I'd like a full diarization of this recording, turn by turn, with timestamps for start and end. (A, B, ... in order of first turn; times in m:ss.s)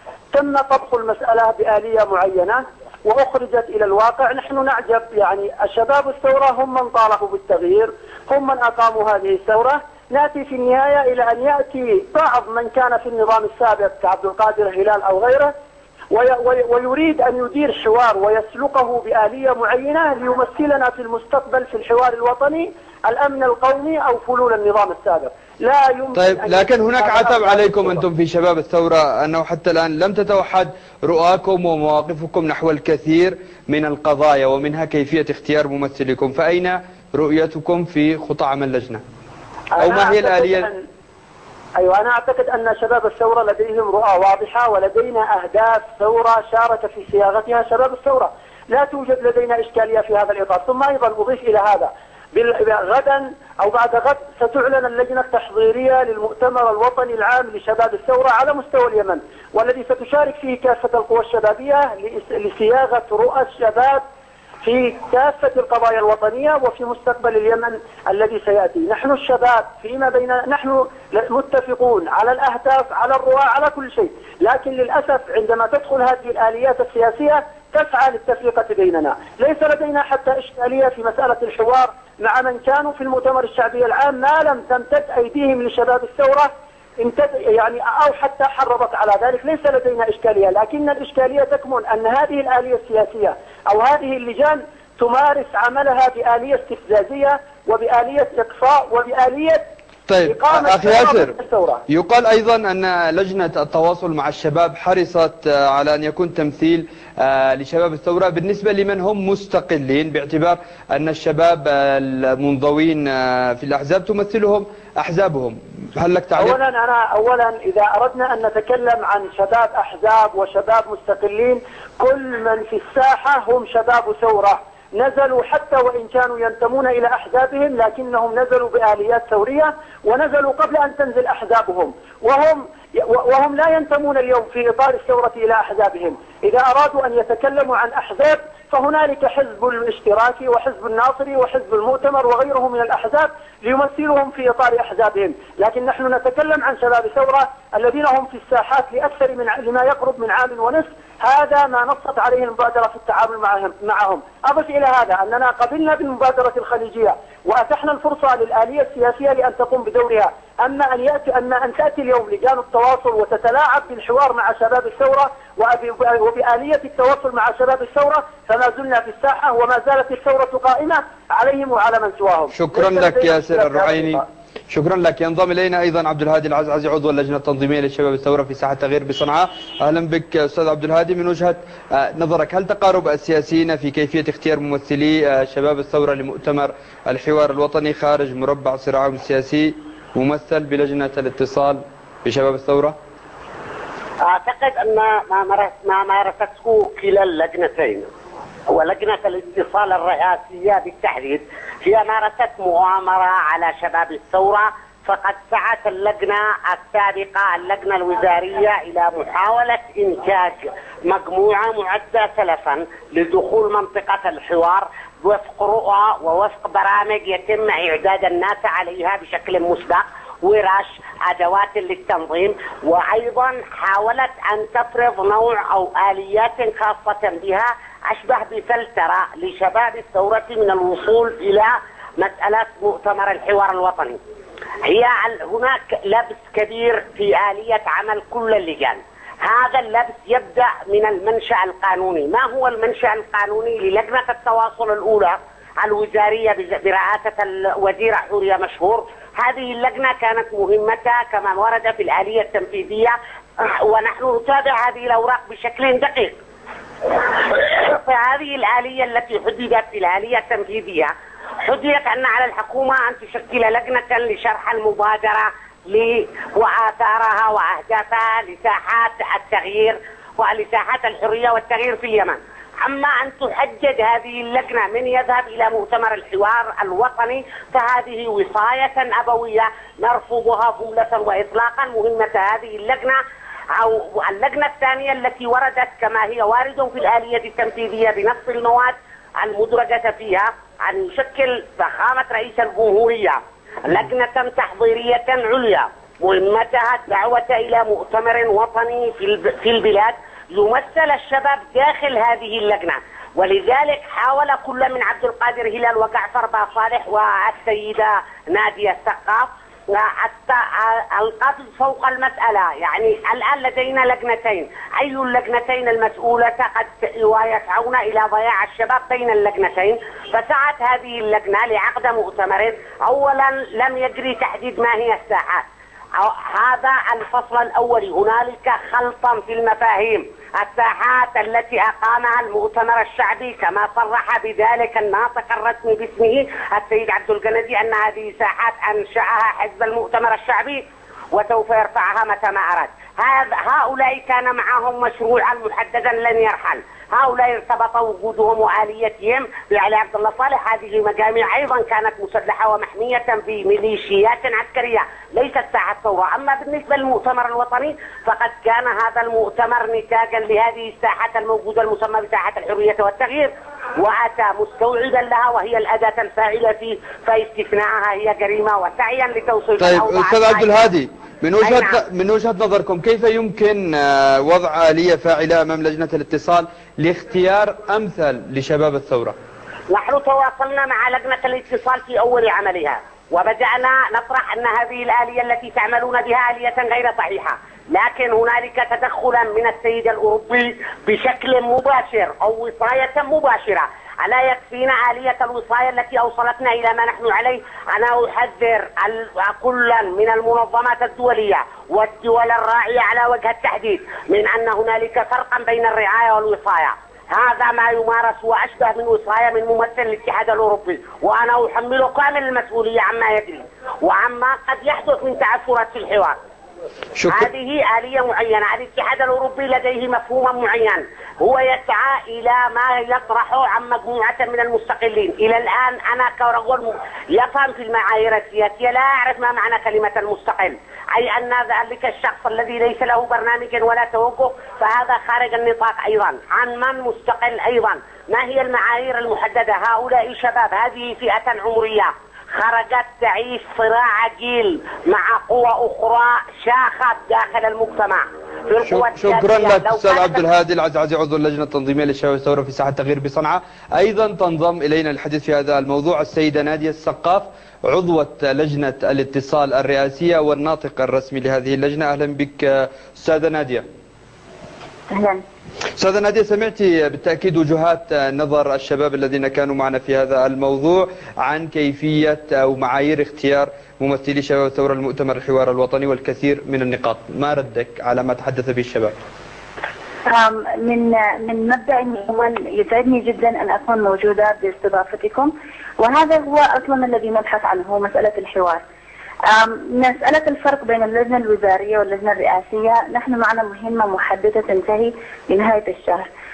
0:00.3-0:15.5 A
0:16.1-0:28.0 A
0:26.2-0:39.0 B
0:39.8-0:40.8 A
0:39.8-0:40.7 B
0:41.8-1:04.0 A
1:04.6-1:39.7 A
1:40.1-1:41.3 B
1:40.3-1:41.8 A
1:41.9-1:56.6 B
1:56.4-2:54.2 A
2:52.5-3:13.0 B
3:14.2-3:18.1 C
3:18.7-3:54.2 C
3:54.8-4:16.4 C
4:17.3-4:21.1 C
4:21.6-4:43.2 C
4:43.8-5:25.6 C
5:26.2-6:10.9 C
6:09.8-6:19.4 B
6:11.6-6:12.0 C
6:19.9-6:56.4 C
6:57.2-6:57.5 B
6:57.3-7:30.4 C
7:28.9-7:43.9 B
7:45.1-7:45.4 D
7:46.0-7:59.2 B
8:00.3-8:08.8 D
8:09.5-8:16.3 D